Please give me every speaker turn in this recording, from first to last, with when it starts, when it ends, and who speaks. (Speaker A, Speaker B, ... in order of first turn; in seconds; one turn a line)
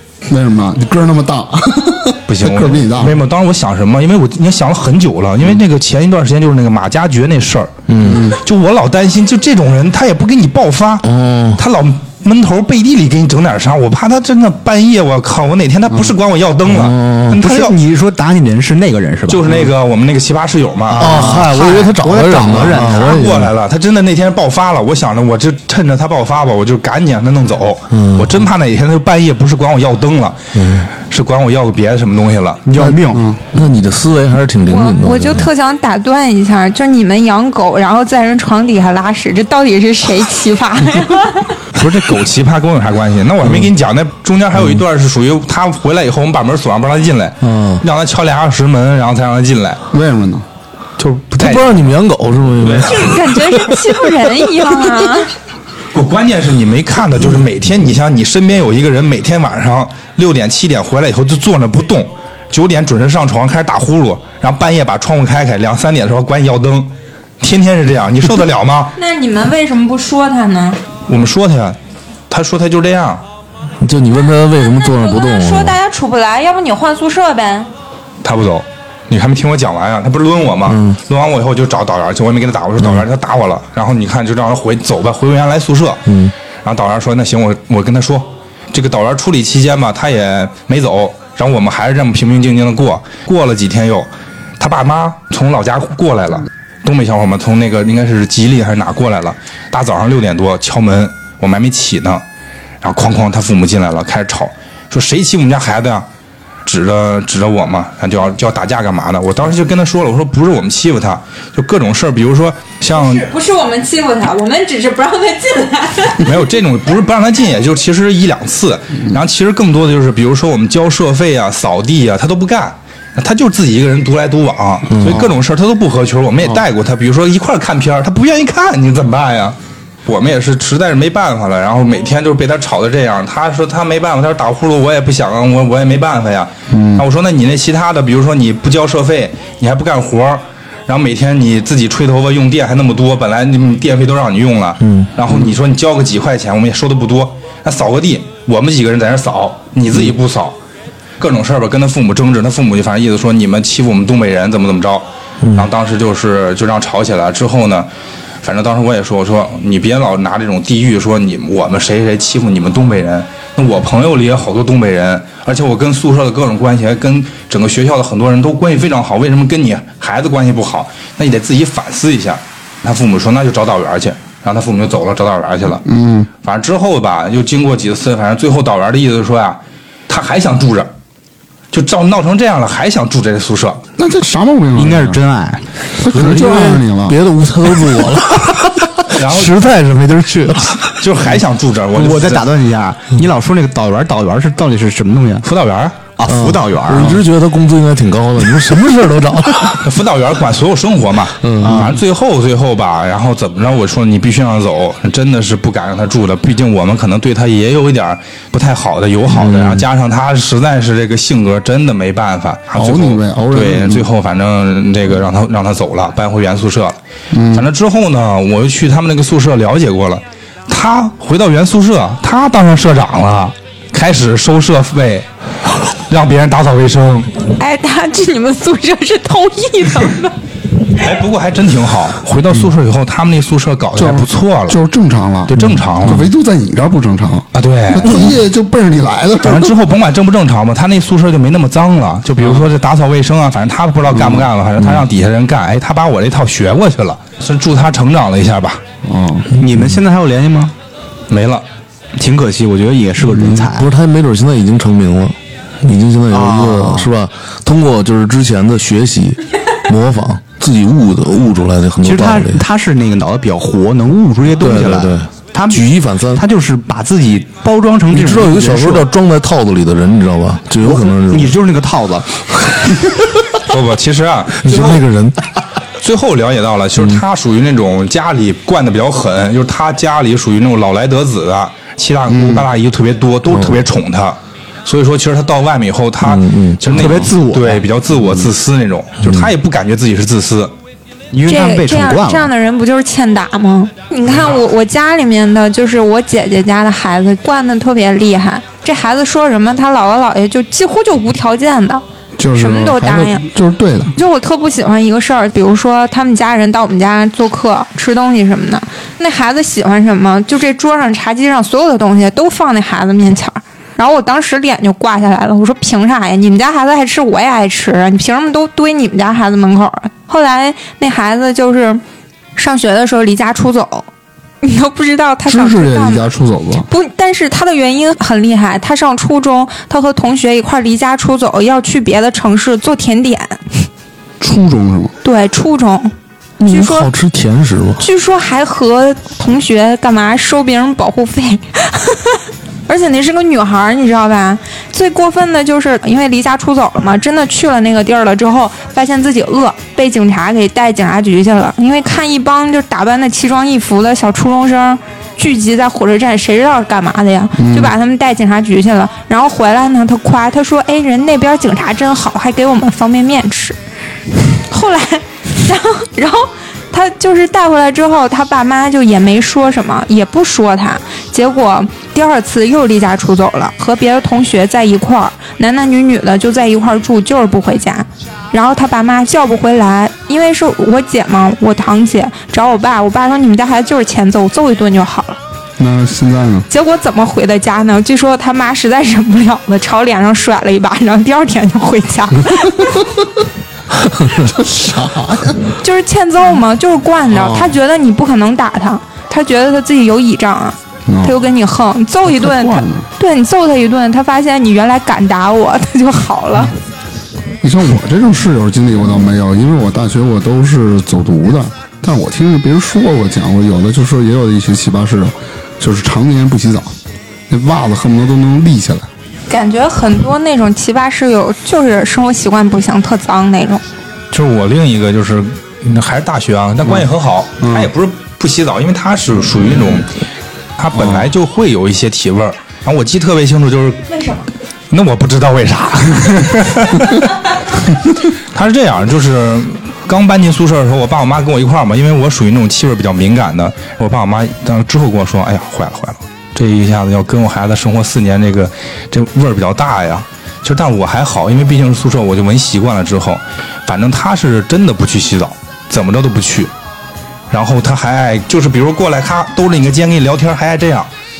Speaker A: 0.2-3.2
Speaker B: 2.3-17.8
Speaker C: 7.9-8.3
Speaker A: 8.0-8.4
Speaker C: 11.0-11.6
Speaker C: 16.7-17.4
Speaker D: 17.3-19.7
Speaker B: 19.3-21.4
Speaker D: 20.9-23.3
Speaker C: 20.9-23.5
Speaker B: 22.8-32.6
Speaker C: 27.9-28.3
Speaker C: 30.5-30.9
Speaker D: 32.6-33.3
Speaker A: 33.1-33.4
Speaker C: 33.5-35.5
Speaker E: 34.7-41.5
Speaker B: 41.7-49.8
Speaker C: 47.4-47.8
Speaker A: 49.9-50.5
Speaker B: 51.0-51.8
Speaker C: 51.4-53.6
Speaker B: 52.6-53.0
Speaker E: 52.8-55.3
Speaker B: 55.9-68.9
Speaker E: 69.0-70.8
Speaker B: 71.1-71.8
Speaker B: 72.3-73.2
Speaker C: 73.8-75.8
Speaker E: 74.7-77.7
Speaker B: 78.2-86.1
Speaker C: 80.7-81.0
Speaker C: 86.1-86.3
Speaker B: 86.6-102.2
Speaker B: 102.8-106.1
Speaker B: 106.6-113.3
Speaker E: 112.9-116.3
Speaker B: 116.2-150.6
Speaker C: 125.0-125.2
Speaker A: 136.7-137.0
Speaker C: 144.8-145.1
Speaker B: 151.2-157.9
Speaker B: 158.4-175.8
Speaker A: 175.8-176.3
Speaker B: 176.4-180.9
Speaker B: 181.7-183.8
Speaker A: 184.0-185.2
Speaker D: 184.7-186.8
Speaker A: 186.0-187.2
Speaker C: 186.3-190.9
Speaker B: 189.1-189.6
Speaker B: 190.8-192.5
Speaker D: 191.9-195.4
Speaker B: 195.4-196.0
Speaker D: 196.2-197.2
Speaker C: 196.3-199.8
Speaker B: 199.8-217.0
Speaker C: 201.4-201.9
Speaker D: 201.6-202.0
Speaker C: 209.3-209.8
Speaker A: 212.8-214.1
Speaker A: 217.3-217.7
Speaker B: 217.5-225.3
Speaker B: 226.1-227.5
Speaker E: 227.6-230.3
Speaker B: 230.9-234.8
Speaker A: 233.9-239.7
Speaker B: 235.5-236.3
Speaker B: 237.5-238.4
Speaker B: 239.4-248.8
Speaker C: 244.8-245.1
Speaker A: 249.0-249.5
Speaker D: 249.6-250.7
Speaker B: 251.3-251.6
Speaker D: 252.2-253.9
Speaker C: 253.4-262.6
Speaker D: 256.3-257.1
Speaker D: 262.0-269.1
Speaker C: 264.6-266.4
Speaker C: 268.1-271.5
Speaker D: 270.8-273.1
Speaker B: 273.6-275.0
Speaker C: 274.6-275.4
Speaker B: 276.0-290.7
Speaker A: 282.3-282.6
Speaker C: 283.5-283.8
Speaker C: 286.2-286.8
Speaker D: 286.9-287.8
Speaker D: 291.3-292.5
Speaker E: 291.5-302.0
Speaker A: 302.4-304.1
Speaker E: 302.6-303.4
Speaker E: 304.1-322.0
Speaker E: 322.6-324.1
Speaker E: 324.6-326.3
Speaker A: 325.4-326.9
Speaker E: 326.9-333.9
Speaker A: 334.4-335.1
Speaker E: 335.2-336.1
Speaker C: 336.6-338.0
Speaker E: 336.7-337.1
Speaker E: 338.0-363.8
Speaker A: 357.6-357.9
Speaker E: 364.5-385.4
Speaker A: 385.8-386.7
Speaker E: 386.7-393.0
Speaker A: 394.4-395.6
Speaker E: 395.8-406.7
Speaker C: 397.4-397.7
Speaker A: 401.1-401.4
Speaker A: 402.3-403.1
Speaker A: 407.6-416.9
Speaker A: 417.5-419.1
Speaker E: 419.5-423.8
Speaker B: 424.3-430.1
Speaker A: 427.6-427.9
Speaker B: 430.8-434.1
Speaker A: 431.0-431.2
Speaker E: 434.1-434.4
Speaker B: 434.9-437.4
Speaker B: 438.5-456.7
Speaker B: 457.5-461.1